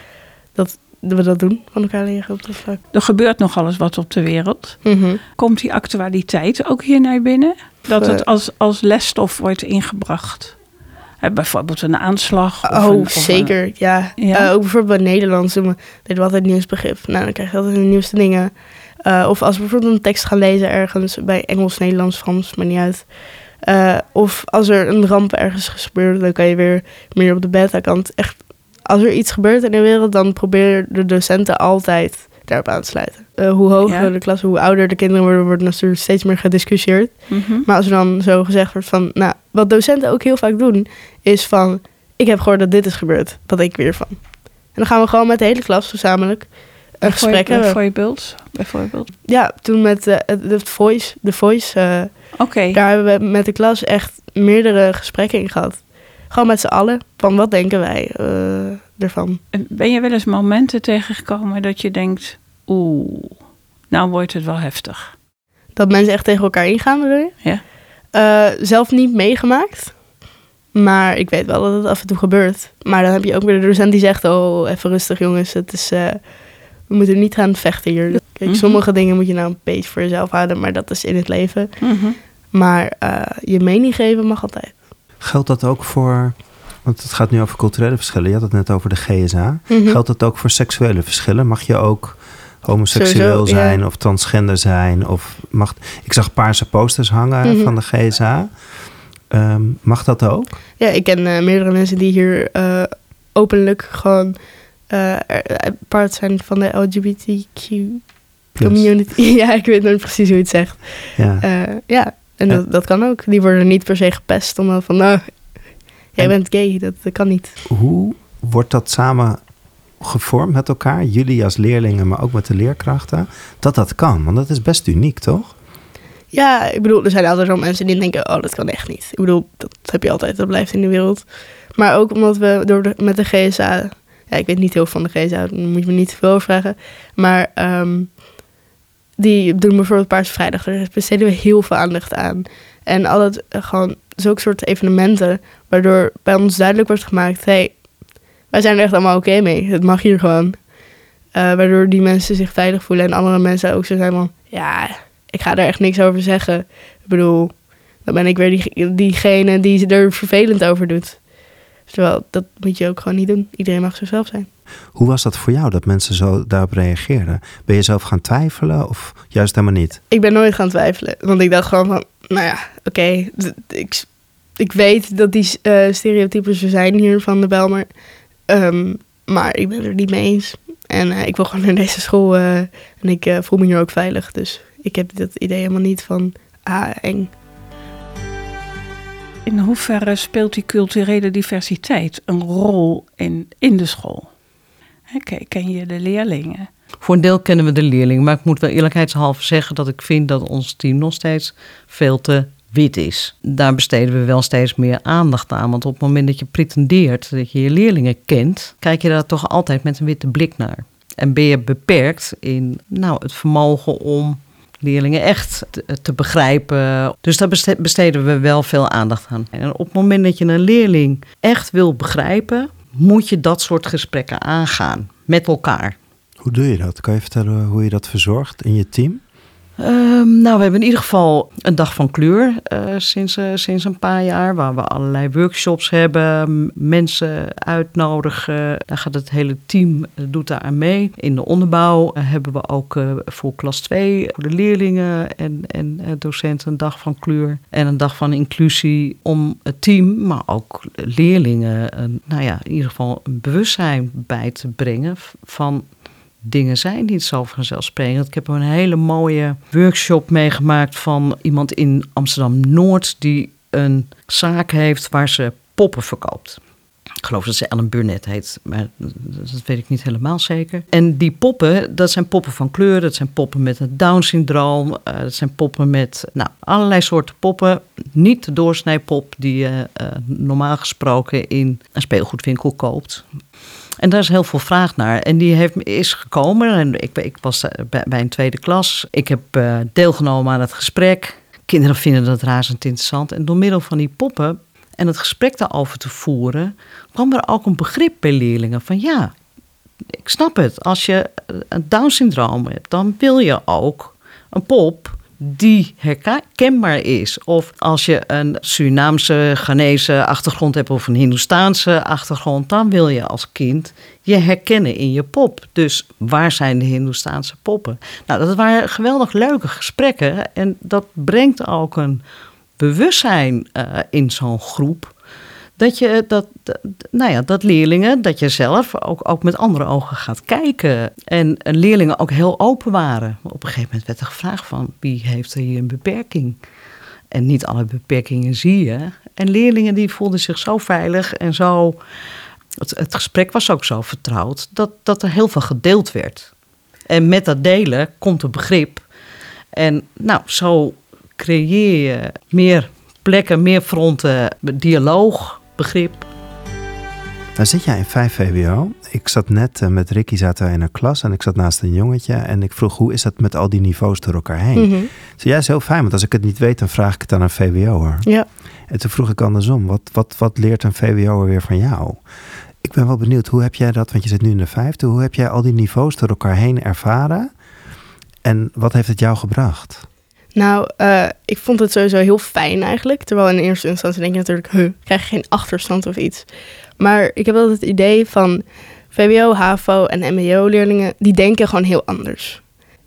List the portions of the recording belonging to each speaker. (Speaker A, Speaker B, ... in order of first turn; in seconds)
Speaker A: 0.6-2.8, 4.8-5.2, 12.7-47.8, 49.2-59.4, 65.8-67.4, 68.1-70.1, 70.7-81.9, 82.5-84.8, 89.7-90.0, 92.9-93.8, 97.4-97.7, 100.8-117.6, 126.3-138.2, 139.2-147.9, 148.5-150.7, 151.3-161.3, 161.9-164.5, 170.1-178.0, 178.5-187.3, 364.8-365.1, 380.6-392.7
Speaker B: 2.9-10.6, 11.2-14.5, 33.8-34.1, 37.3-37.7, 47.0-49.1, 52.4-52.8, 59.5-65.1, 78.1-78.8, 81.8-82.2, 189.5-194.3, 195.1-196.7
Speaker C: 85.2-98.5, 99.3-100.6, 108.6-108.9, 111.2-111.5, 117.7-119.4, 120.0-125.5, 164.9-170.0, 226.4-229.2, 357.6-372.2, 372.8-377.5, 378.4-380.1
Speaker D: 197.0-226.0, 229.8-255.8, 256.4-266.6, 267.2-283.3, 284.0-299.3, 300.2-322.2, 322.8-325.1, 325.8-336.6, 337.3-342.0, 342.8-346.5, 347.1-349.1, 349.7-356.3